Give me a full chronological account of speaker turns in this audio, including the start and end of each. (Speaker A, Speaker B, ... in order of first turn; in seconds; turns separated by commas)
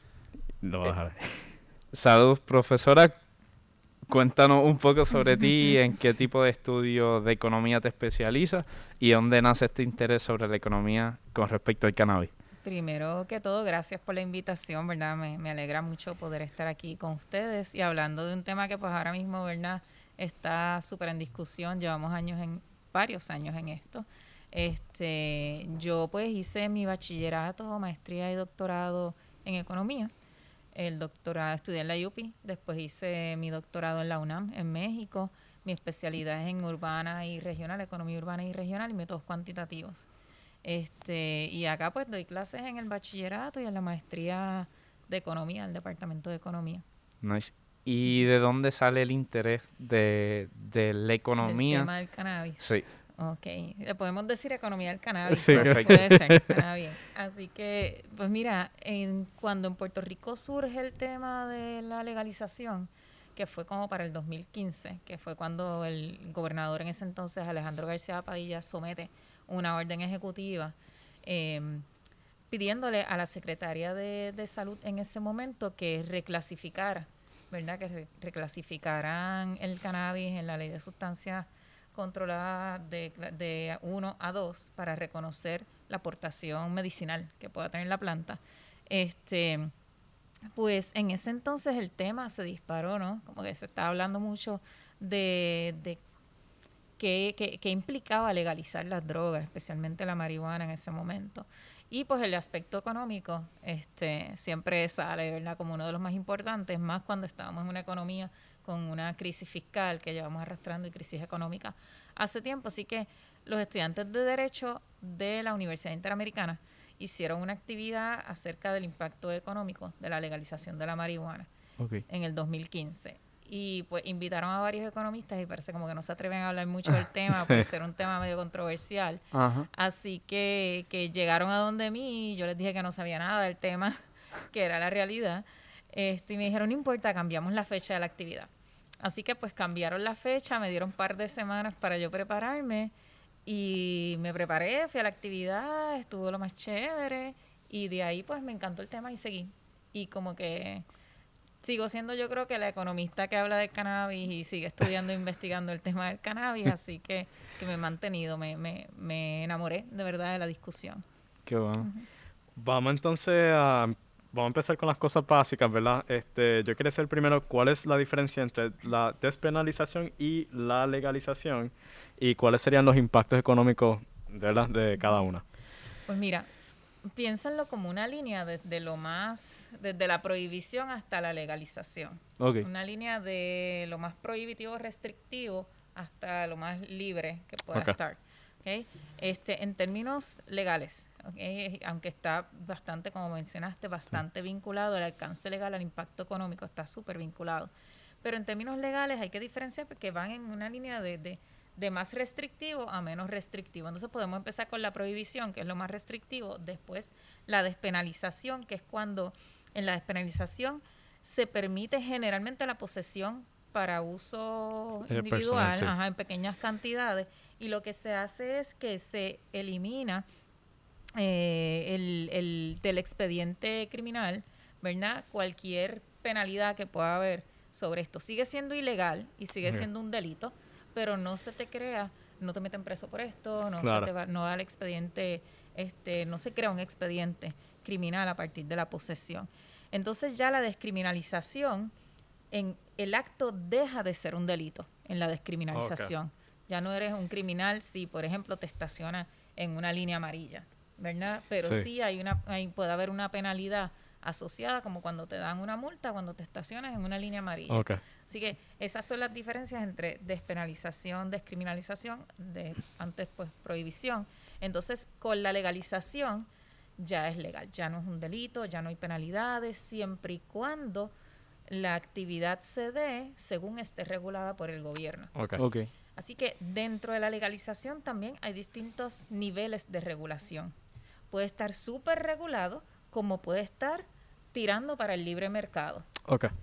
Speaker A: 0.6-1.5, Speaker B: 1.9-3.2, Speaker B: 4.1-12.3, Speaker C: 12.6-30.1, Speaker C: 30.7-40.0, Speaker C: 40.6-46.8, Speaker B: 47.2-51.9, Speaker C: 51.4-71.8, Speaker B: 52.6-52.8, Speaker A: 55.3-56.4, Speaker B: 55.4-56.1, Speaker C: 72.5-89.7, Speaker C: 90.5-96.0, Speaker C: 97.0-121.5, Speaker B: 121.8-122.0, Speaker C: 122.1-134.0, Speaker A: 127.4-127.6, Speaker B: 129.3-129.7, Speaker C: 134.5-138.5, Speaker C: 139.0-142.9, Speaker C: 143.4-150.8, Speaker C: 151.6-161.0, Speaker B: 161.4-161.9, Speaker C: 161.8-162.1, Speaker A: 162.6-175.4, Speaker C: 176.1-176.5, Speaker C: 177.0-197.7, Speaker B: 182.4-182.7, Speaker C: 198.2-220.2, Speaker A: 215.1-215.9, Speaker C: 221.1-241.9, Speaker A: 233.8-234.1, Speaker C: 242.5-266.5, Speaker A: 245.7-246.1, Speaker A: 251.6-251.9, Speaker A: 257.7-258.0, Speaker C: 267.0-271.1, Speaker C: 271.7-275.3, Speaker A: 275.4-275.6, Speaker B: 275.6-275.9, Speaker C: 276.1-280.7, Speaker C: 281.3-286.1, Speaker A: 286.3-286.5